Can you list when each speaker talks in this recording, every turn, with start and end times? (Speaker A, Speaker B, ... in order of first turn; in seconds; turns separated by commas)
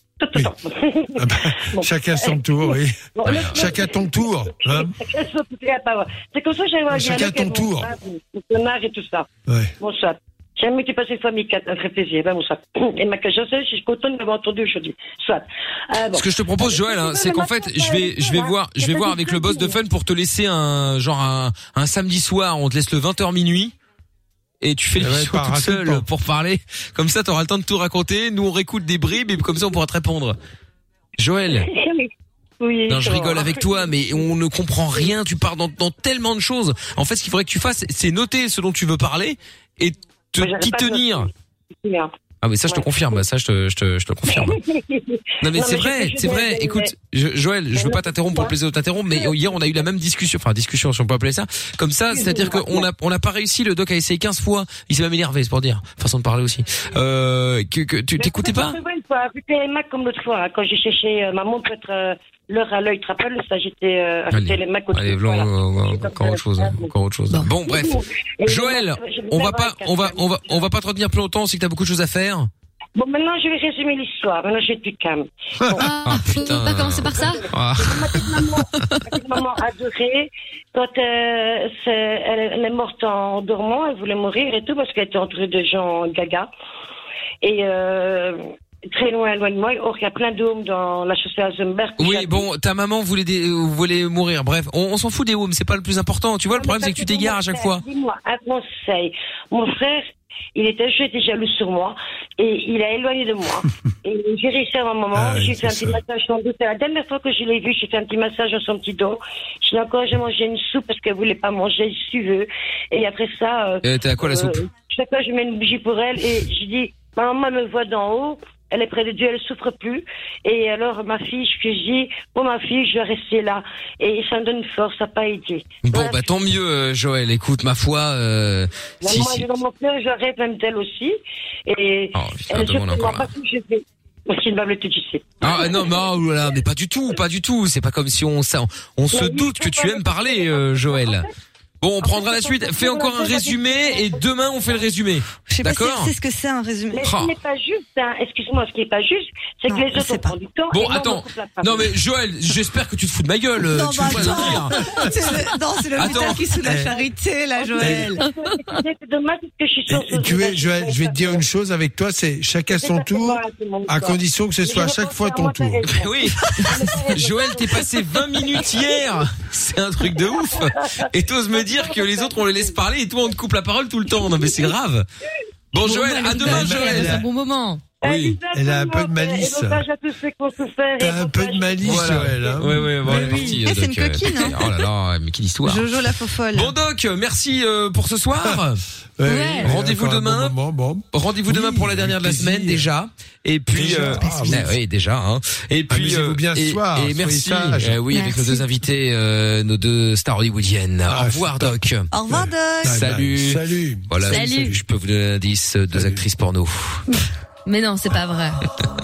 Speaker A: 0.2-9.3, Speaker B: 1.1-5.0, Speaker C: 3.2-3.9, Speaker B: 6.9-7.9, Speaker B: 9.5-9.8, Speaker A: 9.8-19.8, Speaker C: 16.1-23.8, Speaker C: 24.6-30.4, Speaker B: 25.0-26.1, Speaker C: 31.2-31.7, Speaker A: 31.5-34.3, Speaker C: 32.9-41.3, Speaker A: 40.4-41.3, Speaker A: 41.8-42.1, Speaker C: 42.4-44.6, Speaker A: 42.7-43.2, Speaker A: 44.3-46.9, Speaker C: 45.4-58.8, Speaker A: 47.7-48.6, Speaker A: 49.1-49.9, Speaker A: 52.1-52.9, Speaker A: 58.2-66.9, Speaker C: 64.3-67.9, Speaker A: 67.6-70.7, Speaker C: 68.5-72.5, Speaker A: 73.0-75.8, Speaker D: 75.8-77.4, Speaker C: 76.0-78.4, Speaker A: 77.2-86.5, Speaker A: 87.4-92.5, Speaker C: 92.0-97.8, Speaker A: 96.5-126.3, Speaker B: 105.1-106.0, Speaker C: 113.8-114.6, Speaker C: 125.8-129.5, Speaker A: 129.0-136.1, Speaker C: 132.2-133.3, Speaker C: 135.4-141.3, Speaker A: 139.1-141.3, Speaker C: 141.8-146.1, Speaker A: 142.0-144.9, Speaker E: 145.5-147.0, Speaker A: 146.9-151.9, Speaker C: 147.0-147.3, Speaker E: 149.7-150.4, Speaker C: 150.7-155.1, Speaker E: 153.6-158.3, Speaker B: 154.1-155.1, Speaker C: 156.0-156.5, Speaker B: 156.6-157.0, Speaker A: 157.6-161.4, Speaker B: 157.8-158.1, Speaker B: 159.9-165.8, Speaker A: 162.7-167.8, Speaker C: 165.9-166.6, Speaker C: 167.1-175.1, Speaker A: 168.4-169.0, Speaker A: 170.5-172.8, Speaker C: 175.7-177.2, Speaker D: 175.8-177.8, Speaker B: 176.4-177.3, Speaker A: 178.0-182.6, Speaker C: 178.0-178.4, Speaker B: 178.5-179.8, Speaker B: 181.0-183.6, Speaker C: 181.8-185.9, Speaker E: 183.0-184.6, Speaker E: 185.6-186.7, Speaker C: 186.5-188.8, Speaker B: 189.2-192.9, Speaker D: 189.3-189.7, Speaker C: 189.6-190.6, Speaker C: 191.1-202.1, Speaker B: 193.7-194.8, Speaker E: 194.2-194.6, Speaker B: 195.9-198.0, Speaker D: 198.1-198.6, Speaker B: 201.1-204.8, Speaker E: 202.1-203.0, Speaker C: 202.9-207.1, Speaker D: 204.3-204.8, Speaker B: 205.9-206.2, Speaker D: 207.7-208.6